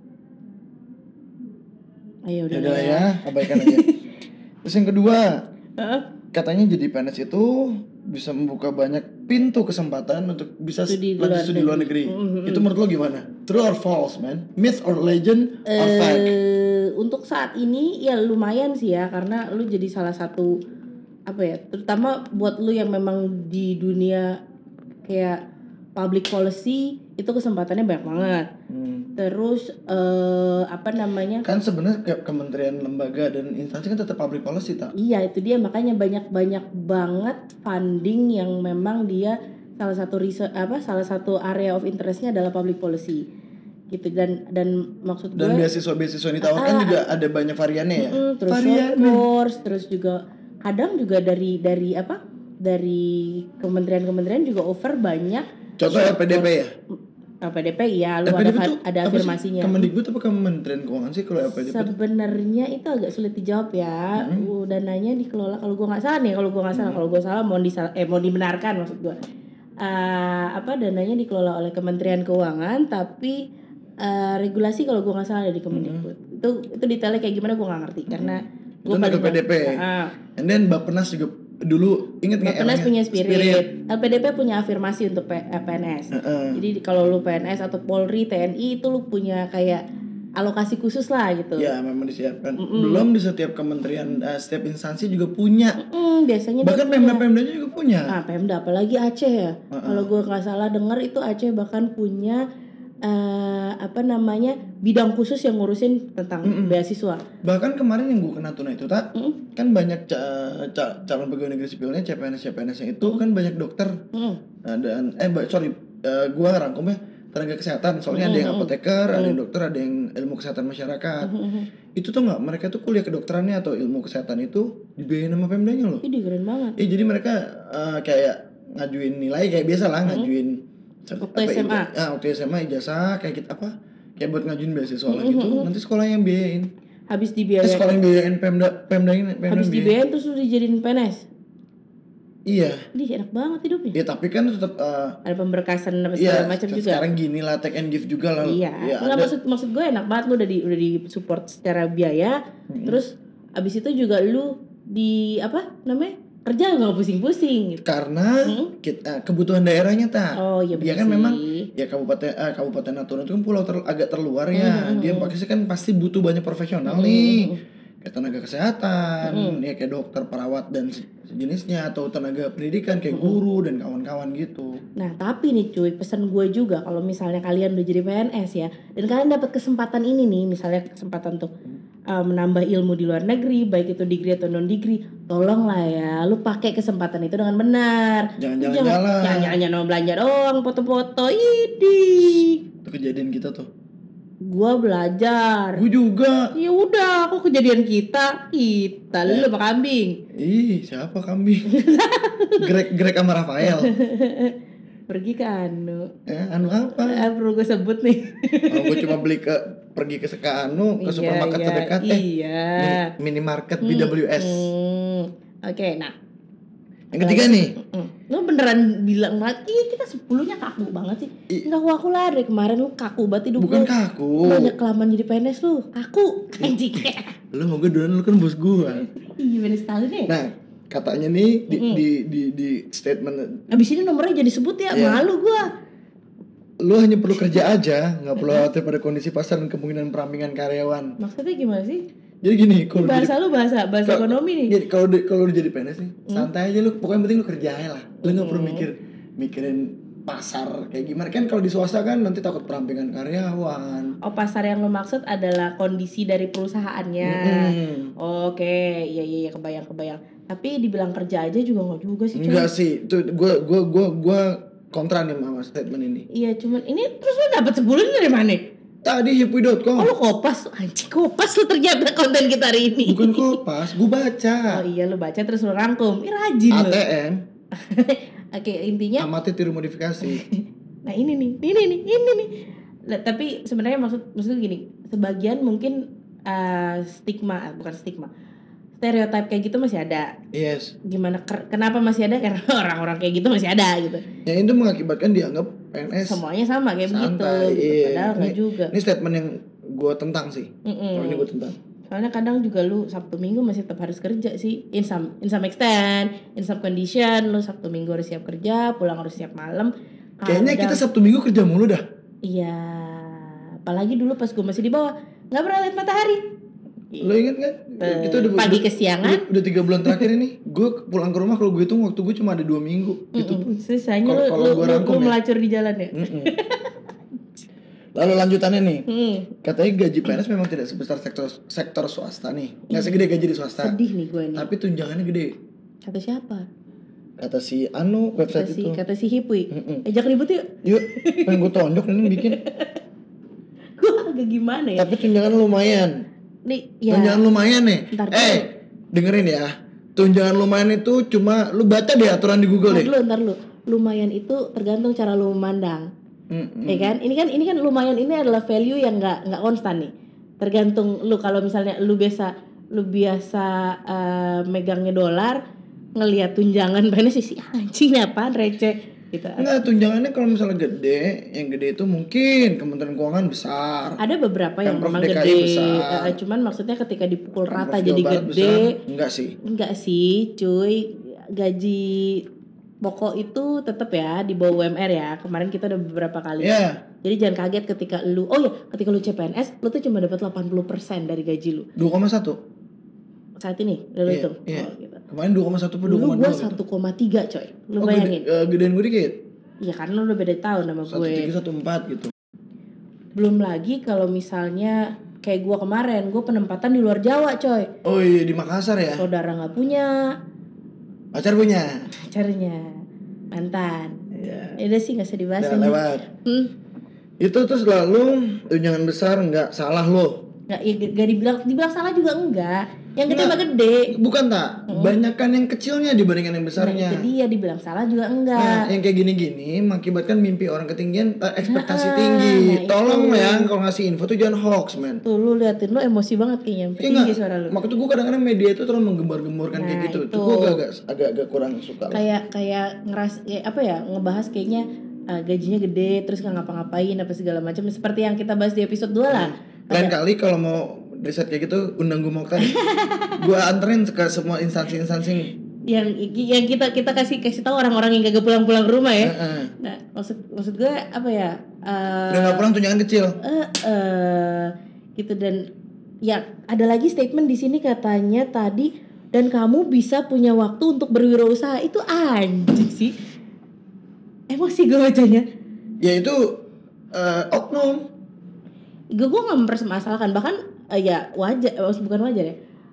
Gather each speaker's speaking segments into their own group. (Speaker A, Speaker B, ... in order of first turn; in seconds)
Speaker A: 2.3-4.0, 5.8-6.0, 10.9-12.7, 15.7-20.6, 21.3-24.4, 25.1-25.4, 26.0-28.5, 29.2-31.5, 35.0-43.2, 43.9-45.7, 46.4-47.1, 48.0-56.5, 57.4-59.9, 61.5-69.2, 69.8-73.4, 74.0-80.1, 82.4-89.8, 90.4-91.7, 92.6-93.0, 95.8-97.2, 98.1-102.4, 103.0-107.2, 114.1-114.4, 118.1-119.4, 121.2-121.7, 126.0-126.8, 131.2-131.9, 135.1-135.7, 137.1-137.9, 139.5-141.3, 142.9-144.0, 145.2-147.0, 148.4-157.8, 158.4-158.7, 160.4-161.7, 164.5-165.3, 166.9-167.6, 169.2-169.6, 175.0-181.5, 182.1-192.6, 194.4-195.8, 196.6-200.2, 201.7-202.7, 203.6-204.6, 205.1-206.1, 207.0-209.2, 211.0-213.1, 213.8-216.1, 217.2-223.9, 224.4-227.3, 229.0-230.3, 231.7-232.0, 233.7-235.7, 238.4-238.7, 241.2-242.1, 243.0-244.8, 248.2-248.9, 254.2-262.7, 266.3-268.7, 270.0-273.6, 274.7-277.0, 277.7-279.3, 280.2-282.6, 283.1-288.3, 289.0-290.4, 291.1-294.2, 296.2-298.9, 300.9-301.5, 302.1-311.0, 312.4-316.4, 318.0-319.4, 323.4-327.0, 329.1-329.5, 332.9-333.2, 333.8-334.7, 336.1-336.7, 338.5-341.7, 342.2-343.0, 344.0-345.2, 346.7-347.4, 348.1-348.7, 352.9-356.1, 356.9-365.6, 366.2-369.7, 374.2-379.0, 379.6-382.4, 383.0-391.9, 393.6-395.2, 396.1-398.4, 399.8-401.5, 403.4-407.9, 409.2-410.3, 412.2-413.0, 413.5-416.7, 420.7-424.1, 424.9-425.1, 426.8-428.9, 431.6-433.7, 435.2-437.8, 439.8-440.8, 442.1-450.1, 452.6-453.4, 455.9-462.7, 463.4-465.7, 466.2-473.1, 474.5-475.4, 479.1-482.6
Speaker B: 2.5-3.9, 4.6-5.5, 6.3-16.4, 28.7-29.1, 31.4-34.9, 45.4-49.3, 55.8-56.7, 58.2-62.0, 64.2-64.5, 66.7-67.0, 75.7-76.1, 78.1-79.8, 80.4-83.7, 86.1-86.6, 91.6-95.8, 96.6-98.1, 99.7-100.1, 106.4-106.8, 107.4-114.0, 114.6-121.3, 122.0-126.0, 126.8-136.7, 137.6-140.0, 142.5-142.8, 143.9-145.2, 146.2-149.3, 152.7-153.0, 157.8-174.8, 188.4-189.6, 192.8-193.7, 195.8-196.5, 200.3-201.7, 202.6-203.9, 206.3-207.3, 208.7-212.2, 212.8-214.7, 217.1-217.8, 223.6-224.7, 226.6-229.1, 230.3-233.7, 234.9-235.2, 236.8-241.2, 242.4-243.3, 244.1-254.2, 257.2-258.1, 262.3-266.3, 269.0-270.1, 273.1-274.8, 276.7-277.4, 279.2-280.4, 290.5-291.0, 294.5-296.4, 297.1-301.8, 310.5-312.0, 317.2-325.4, 326.1-326.5, 328.2-329.1, 329.6-334.0, 334.6-335.6, 337.4-339.0, 339.7-340.1, 340.8-342.6, 345.0-346.2, 347.1-353.1, 356.5-357.1, 369.6-374.2, 374.8-376.4, 377.6-379.6, 386.6-387.0, 392.0-392.6, 394.3-396.8, 398.0-399.4, 401.1-402.3, 408.0-409.3, 411.3-412.1, 414.3-414.8, 415.6-416.3, 417.4-420.5, 423.3-427.3, 428.6-435.2, 437.0-442.2, 449.3-452.8, 453.4-455.6, 459.2-459.7, 462.3-463.4, 476.0-478.1